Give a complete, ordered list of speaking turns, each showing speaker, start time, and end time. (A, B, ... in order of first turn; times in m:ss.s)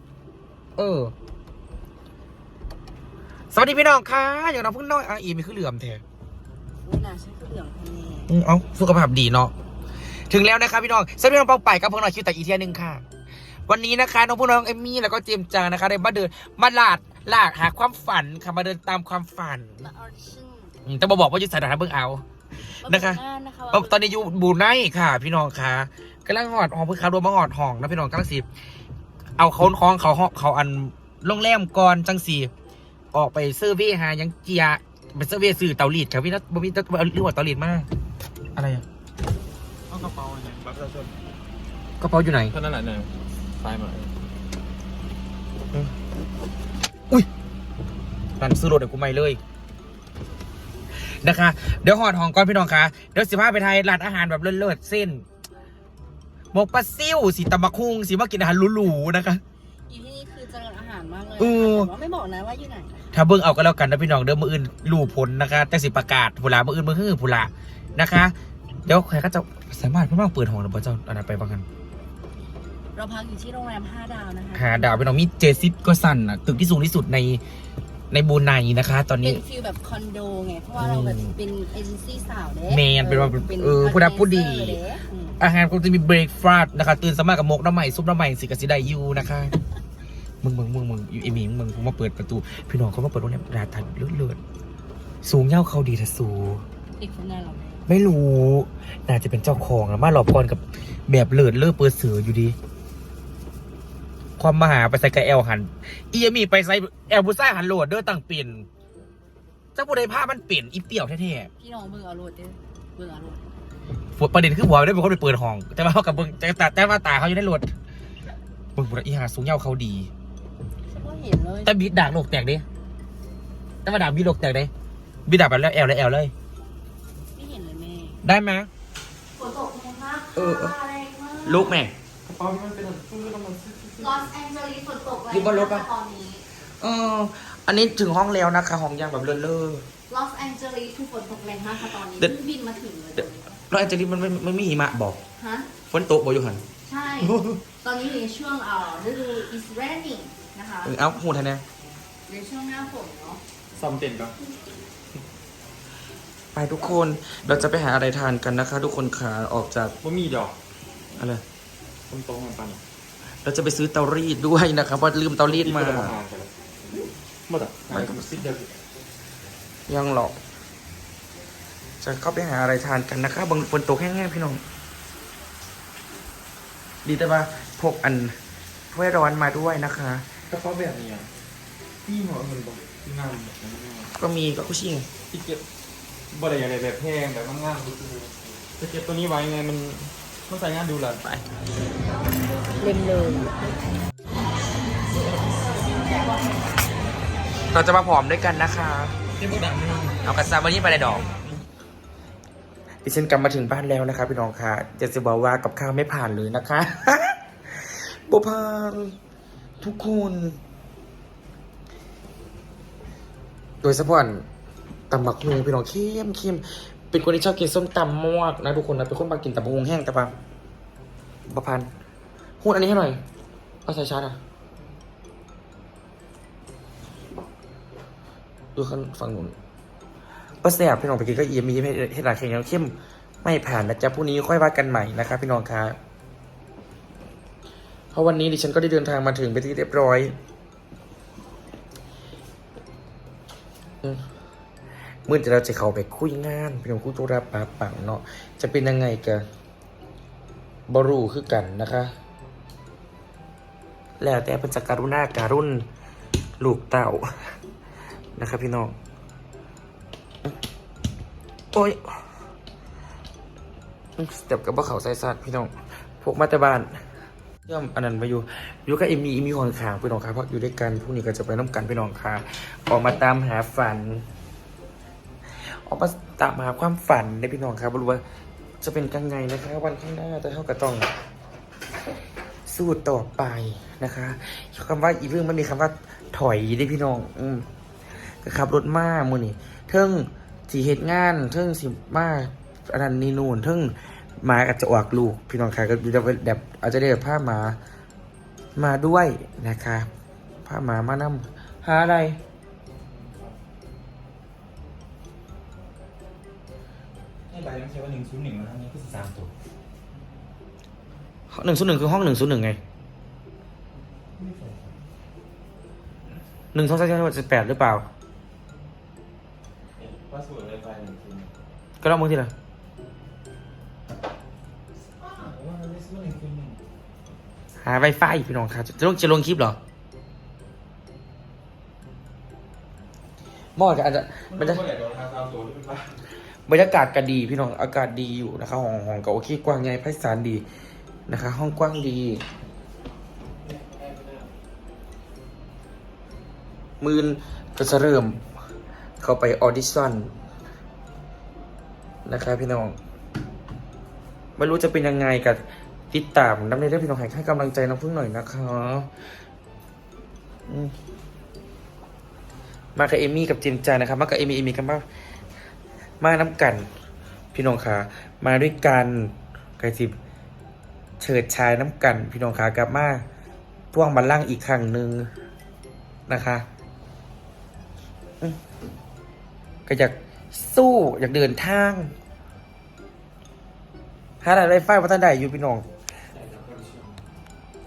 0:00.8-0:01.1 A
0:03.5-0:06.0 A
0:06.8-0:08.3 B
0:08.3-0:09.5 A
0:10.3-0:13.0 A
0:13.7-0:19.9 A
0:19.8-0:20.8 B
0:20.8-0:22.2 A
0:22.7-0:28.4 A
0:22.8-0:24.3 B
0:29.4-0:32.5 A
0:33.1-0:37.9 A
0:38.6-0:38.8 A
0:39.9-0:41.1 C
0:42.0-0:42.5 A
0:42.5-0:44.1 C
0:48.4-0:49.4 A
0:51.2-0:55.2 A
0:56.5-0:59.4 A
0:59.9-1:03.1 B
1:01.4-1:01.9 A
1:03.1-1:08.3 A
1:08.8-1:11.6 A
1:12.9-1:15.1 B
1:14.5-1:17.4 A
1:18.1-1:19.4 A
1:19.2-1:25.4 B
1:20.8-1:21.3 A
1:22.6-1:24.8 A
1:25.4-1:29.6 A
1:30.4-1:34.4 A
1:35.2-1:36.6 A
1:37.0-1:37.8 B
1:37.9-1:42.6 A
1:44.4-1:48.7 A
1:49.8-1:51.5 A
1:51.6-1:53.4 B
1:54.2-1:57.7 A
1:58.8-2:00.1 A
2:00.9-2:01.7 B
2:01.6-2:02.6 A
2:03.8-2:04.7 A
2:05.2-2:06.3 A
2:07.3-2:08.2 B
2:08.2-2:08.7 A
2:09.3-2:11.8 B
2:10.3-2:10.7 A
2:11.4-2:11.9 A
2:12.2-2:14.3 C
2:14.0-2:16.4 B
2:15.3-2:15.9 A
2:16.8-2:19.8 A
2:20.1-2:23.6 B
2:22.1-2:22.3 A
2:23.2-2:25.2 A
2:25.4-2:25.7 B
2:25.9-2:26.6 A
2:26.8-2:31.0 B
2:27.2-2:27.6 A
2:30.8-2:31.6 A
2:32.3-2:33.4 B
2:33.7-2:34.3 C
2:36.5-2:39.9 A
2:40.0-2:40.5 C
2:41.2-2:41.4 A
2:42.1-2:42.8 C
2:43.4-2:46.2 A
2:45.5-2:48.7 C
2:47.9-2:48.4 A
2:49.9-2:50.4 A
2:52.0-2:54.6 A
2:57.0-2:58.4 A
2:58.9-3:00.3 A
3:00.5-3:01.3 C
3:02.0-3:04.1 C
3:04.2-3:05.1 A
3:05.3-3:05.6 C
3:06.3-3:11.3 C
3:12.7-3:13.5 B
3:15.7-3:16.6 B
3:17.7-3:19.2 A
3:19.4-3:20.2 C
3:20.2-3:21.3 A
3:23.0-3:29.2 A
3:29.8-3:30.6 A
3:33.8-3:34.4 A
3:35.1-3:40.3 A
3:41.5-3:41.9 A
3:42.6-3:43.2 A
3:43.8-3:44.4 A
3:48.7-3:49.5 A
3:50.6-3:56.0 A
3:58.1-4:00.3 A
4:05.2-4:09.4 A
4:10.9-4:12.1 A
4:14.2-4:15.8 A
4:16.6-4:17.3 A
4:18.4-4:19.0 A
4:21.7-4:22.2 A
4:24.2-4:26.9 A
4:27.7-4:34.2 A
4:35.6-4:38.2 A
4:38.8-4:41.1 A
4:42.7-4:47.7 A
4:48.4-4:57.8 A
4:58.8-5:00.1 A
5:00.6-5:02.4 A
5:03.1-5:03.6 C
5:07.5-5:09.5 C
5:11.5-5:12.8 A
5:14.3-5:14.9 C
5:16.7-5:18.0 A
5:20.0-5:21.5 C
5:22.0-5:22.5 A
5:25.0-5:26.8 C
5:27.8-5:29.8 A
5:33.8-5:34.8 A
5:34.5-5:36.2 C
5:36.7-5:40.6 A
5:41.3-5:42.4 A
5:43.6-5:44.5 C
5:47.0-5:48.4 A
5:49.2-5:50.3 A
5:52.2-5:53.0 A
5:54.6-5:59.1 A
6:00.7-6:00.9 A
6:03.0-6:05.0 A
6:06.2-6:06.9 A
6:07.5-6:10.1 A
6:11.2-6:13.2 A
6:13.9-6:15.3 A
6:16.3-6:16.6 A
6:19.9-6:22.1 A
6:24.4-6:25.8 A
6:26.3-6:27.2 C